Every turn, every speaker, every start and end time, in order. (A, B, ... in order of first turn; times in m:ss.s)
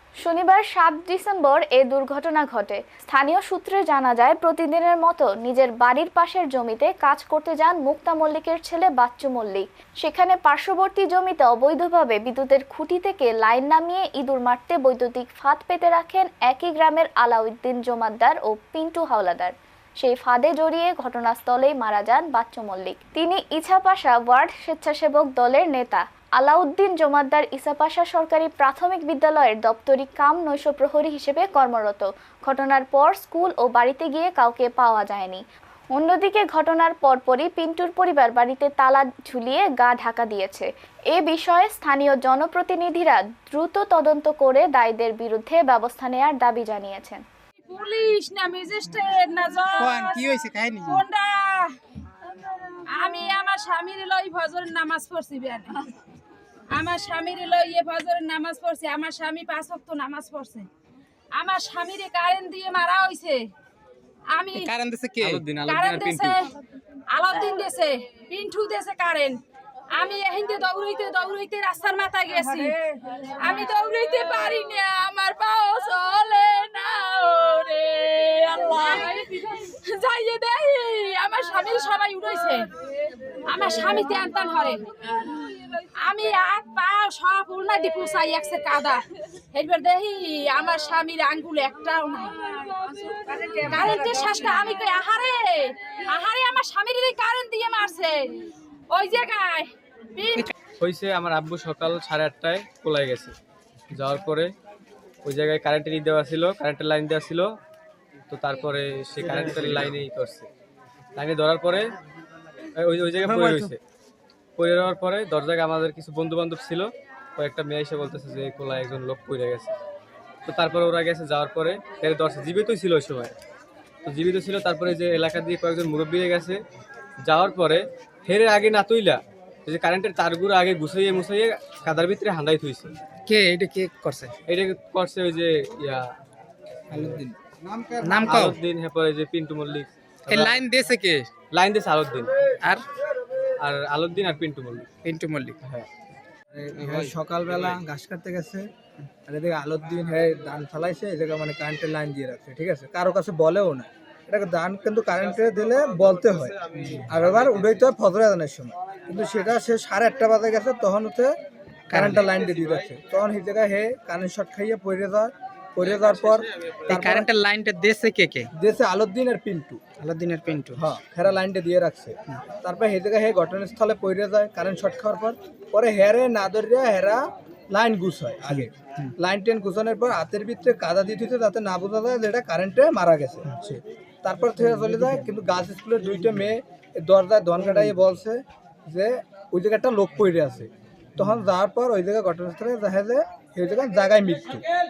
0:00.2-0:35.4 A
0:35.9-0:47.2 A
0:47.7-0:51.8 B
0:49.8-0:51.1 C
0:52.8-0:55.9 B
0:56.7-1:00.7 B
1:01.3-1:03.5 B
1:04.3-1:04.7 B
1:04.5-1:05.5 C
1:05.2-1:06.5 D
1:05.6-1:06.5 B
1:07.1-1:22.7 B
1:23.4-1:40.5 B
1:40.8-1:43.3 D
1:43.9-1:44.5 D
1:45.2-1:47.5 D
1:48.3-1:50.5 D
1:51.2-1:51.9 D
1:52.8-1:53.8 D
1:53.4-1:53.6 E
1:54.6-1:59.8 D
2:00.5-2:03.4 D
2:04.0-2:06.6 D
2:07.2-2:12.9 D
2:13.3-2:14.4 C
2:14.5-2:16.1 D
2:16.9-2:17.2 D
2:16.9-2:18.2 E
2:18.0-2:18.6 C
2:18.2-2:20.6 D
2:20.3-2:21.3 C
2:21.5-2:22.3 D
2:23.6-2:24.9 D
2:25.0-2:25.6 C
2:26.5-2:28.7 E
2:29.3-2:41.4 E
2:41.9-2:42.2 C
2:41.9-2:47.3 E
2:46.9-2:48.5 C
2:48.6-2:49.8 E
2:50.0-2:50.8 C
2:50.8-3:14.6 E